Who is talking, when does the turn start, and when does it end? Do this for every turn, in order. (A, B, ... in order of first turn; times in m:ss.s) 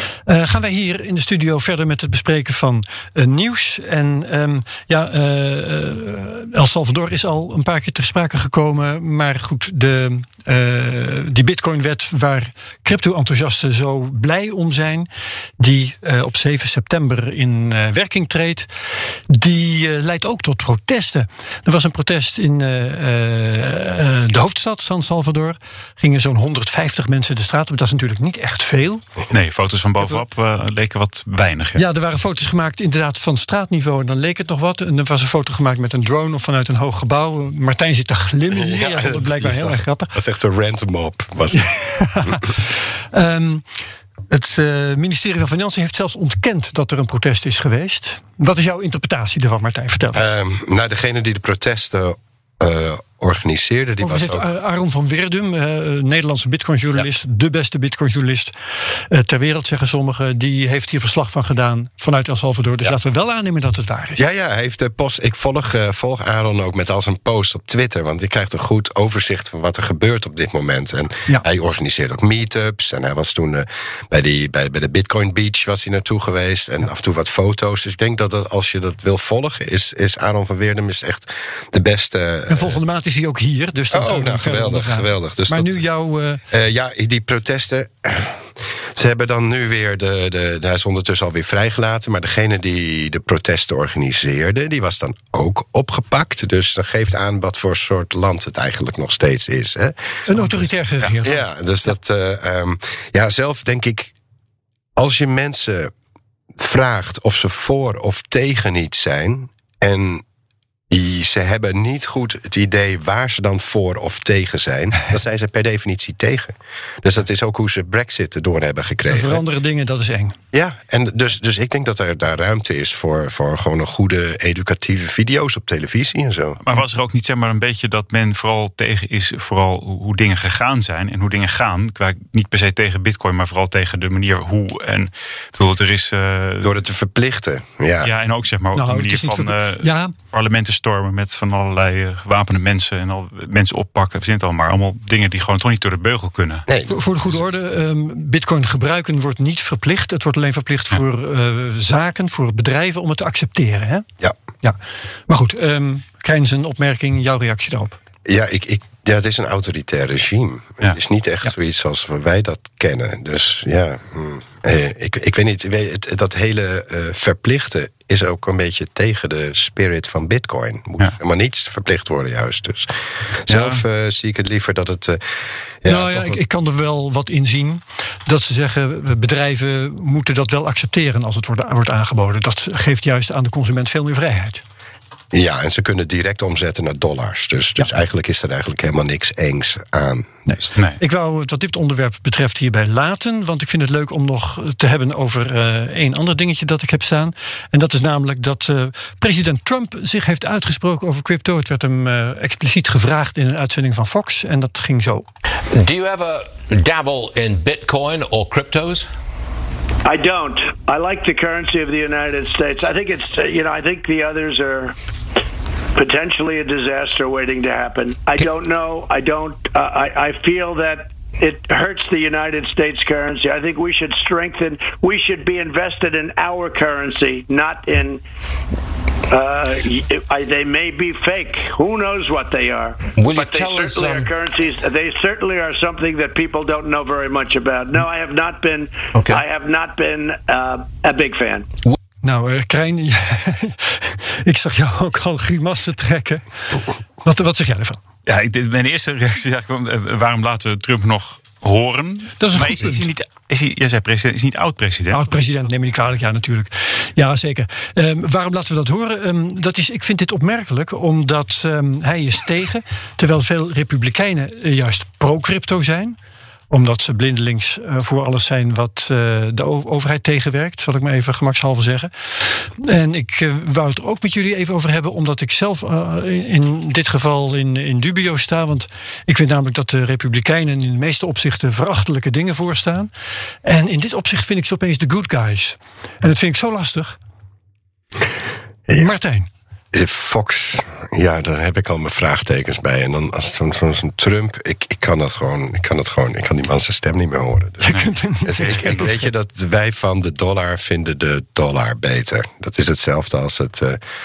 0:00.2-0:15.1 A
0:15.6-0:18.7 A
0:19.3-0:29.0 A
0:29.3-0:31.8 B
0:31.8-0:40.1 A
0:38.5-0:42.5 C
0:41.5-0:43.6 A
0:44.3-0:50.3 A
0:50.1-0:54.5 C
0:54.0-0:58.5 A
0:59.1-1:04.2 A
1:04.2-1:22.8 C
1:22.5-1:26.4 A
1:23.9-1:25.8 C
1:26.5-1:40.6 C
1:40.2-1:41.4 A
1:41.2-1:44.1 C
1:45.0-1:45.9 C
1:46.6-1:50.2 C
1:50.9-1:59.4 C
1:59.1-2:00.4 A
2:00.5-2:06.6 C
2:06.6-2:16.8 B
2:16.6-2:18.1 C
2:18.0-2:26.6 B
2:18.7-2:20.1 A
2:26.7-2:27.4 C
2:26.9-2:34.0 A
2:35.3-2:38.0 A
2:38.2-2:55.2 C
2:53.5-2:53.8 B
2:55.8-2:56.4 C
2:55.8-3:04.6 A
3:05.3-3:10.4 C
3:10.5-3:25.2 A
3:10.7-3:11.0 B
3:25.7-3:29.1 D
3:30.0-3:34.9 E
3:35.9-3:48.2 E
3:49.3-4:01.7 E
3:53.2-3:54.3 D
3:59.1-3:59.4 D
4:02.2-4:08.0 A
4:08.2-4:15.2 B
4:12.4-4:13.1 A
4:15.1-4:26.2 A
4:26.7-4:43.1 A
4:43.6-4:47.2 A
4:48.9-4:49.1 C
4:48.9-4:49.5 A
4:49.9-4:57.9 C
4:57.8-4:59.1 A
4:57.9-4:59.0 B
4:58.4-5:04.0 C